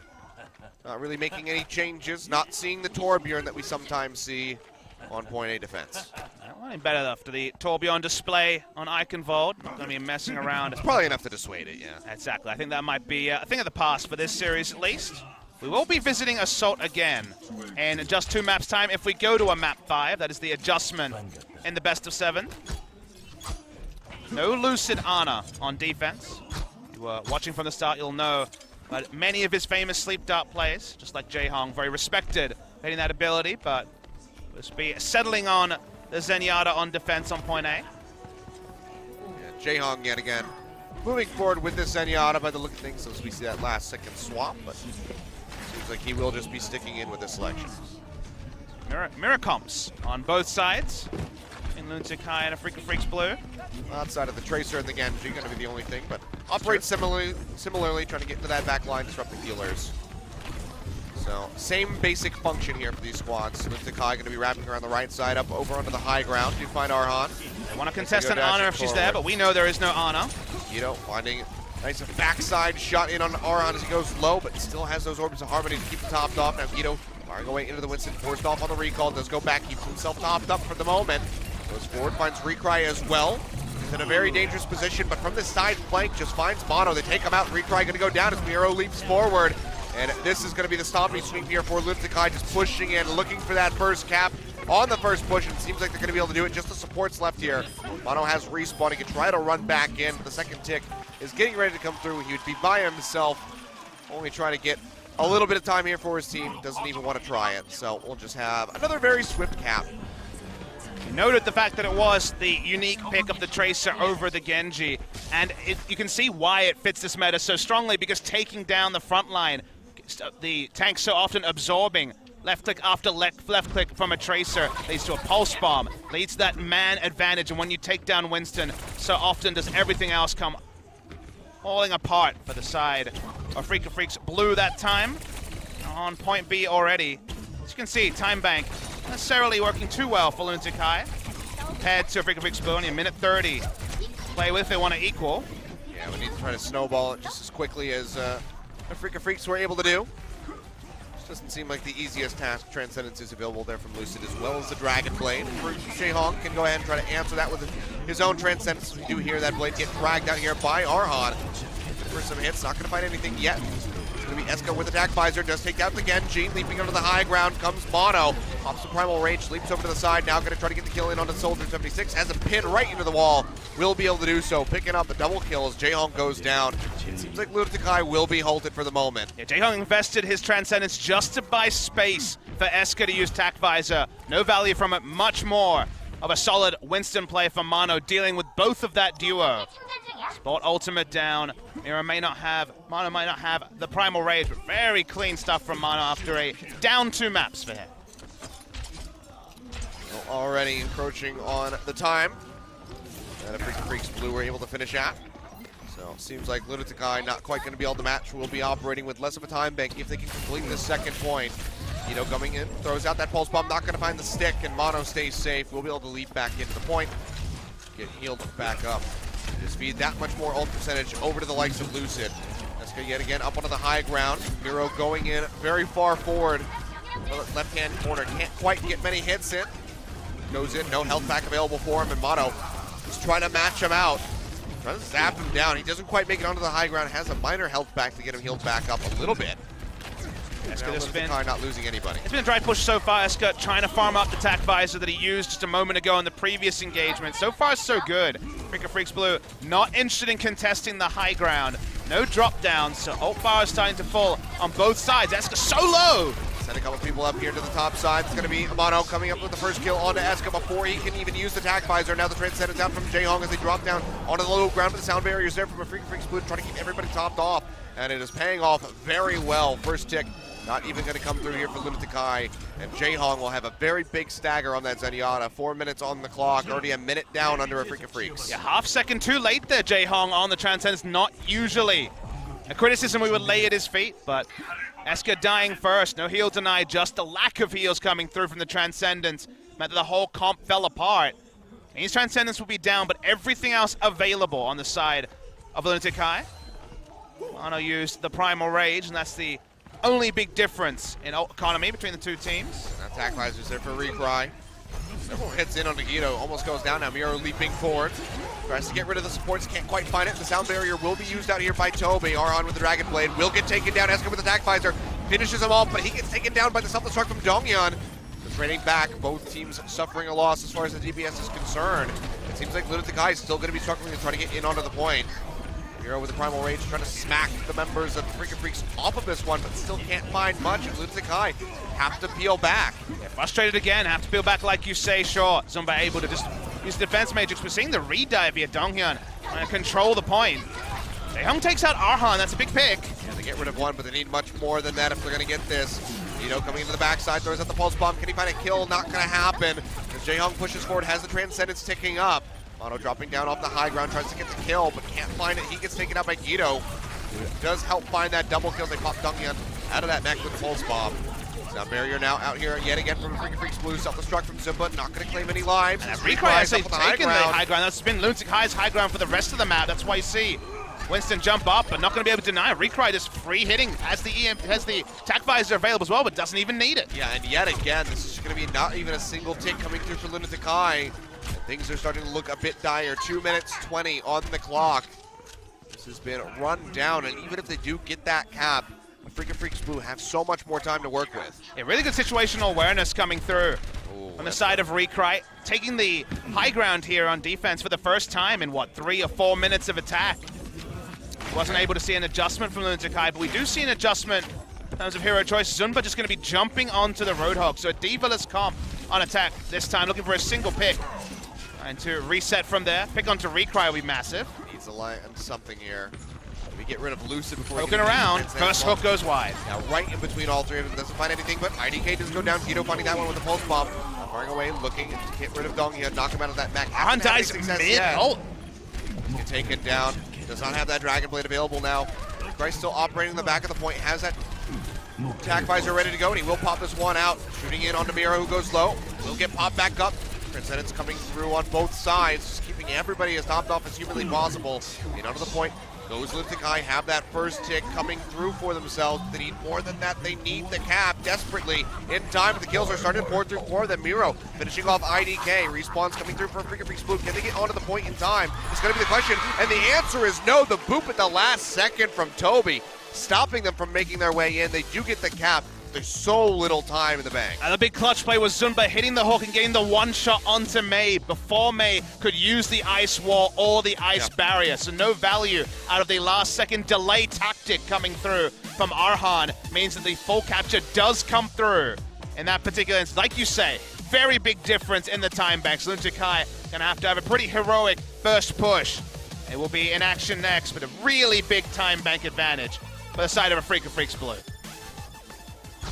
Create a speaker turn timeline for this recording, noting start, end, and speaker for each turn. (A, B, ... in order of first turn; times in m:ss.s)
0:00.8-0:06.1 A
0:06.4-0:10.8 B
0:10.8-0:12.0 A
0:12.0-0:22.5 B
0:24.3-0:33.9 B
0:34.5-0:37.8 B
0:39.3-0:44.8 A
0:45.6-0:47.9 A
0:48.9-0:51.1 B
0:51.7-0:53.4 B
0:53.9-0:59.9 A
0:56.5-0:56.8 B
1:01.1-1:07.4 A
1:07.7-1:10.3 B
1:08.0-1:09.2 A
1:10.7-1:43.5 A
1:44.1-1:49.9 A
1:51.0-2:10.6 B
2:11.6-2:15.2 B
2:15.8-2:21.1 B
2:21.8-2:23.6 B
2:24.3-2:25.5 B
2:25.9-2:30.1 A
2:31.2-2:41.4 A
2:41.9-2:59.3 A
2:59.4-3:09.7 B
3:10.3-3:17.9 B
3:20.1-3:22.4 A
3:23.4-3:25.2 A
3:25.9-3:37.1 A
3:37.9-3:46.7 A
3:47.2-3:49.7 A
3:50.5-3:54.2 A
3:54.8-3:59.6 A
4:00.6-4:02.2 A
4:00.6-4:01.4 B
4:02.2-4:16.4 B
4:16.6-4:38.6 A
4:38.4-4:42.1 B
4:42.7-4:44.5 B
4:45.0-4:51.4 B
4:51.9-4:56.5 B
4:57.5-5:02.9 B
5:02.9-5:04.5 A
5:05.2-5:25.3 A
5:25.9-5:33.0 A
5:33.2-5:40.7 B
5:41.3-5:43.1 B
5:43.2-6:01.2 A
6:01.7-6:07.6 A
6:06.0-6:17.1 B
6:17.1-6:25.1 A
6:25.9-6:31.6 A
6:31.7-6:33.8 B
6:34.0-6:34.9 A
6:34.4-6:40.5 B
6:41.5-6:51.0 B
6:41.6-6:41.9 A
6:51.8-6:54.5 B
6:54.6-6:56.1 A
6:56.7-6:59.0 A
6:57.8-6:59.6 B
6:59.6-7:08.3 A
7:06.9-7:08.4 B
7:09.3-7:14.4 A
7:15.3-7:47.6 A
7:47.6-8:14.4 B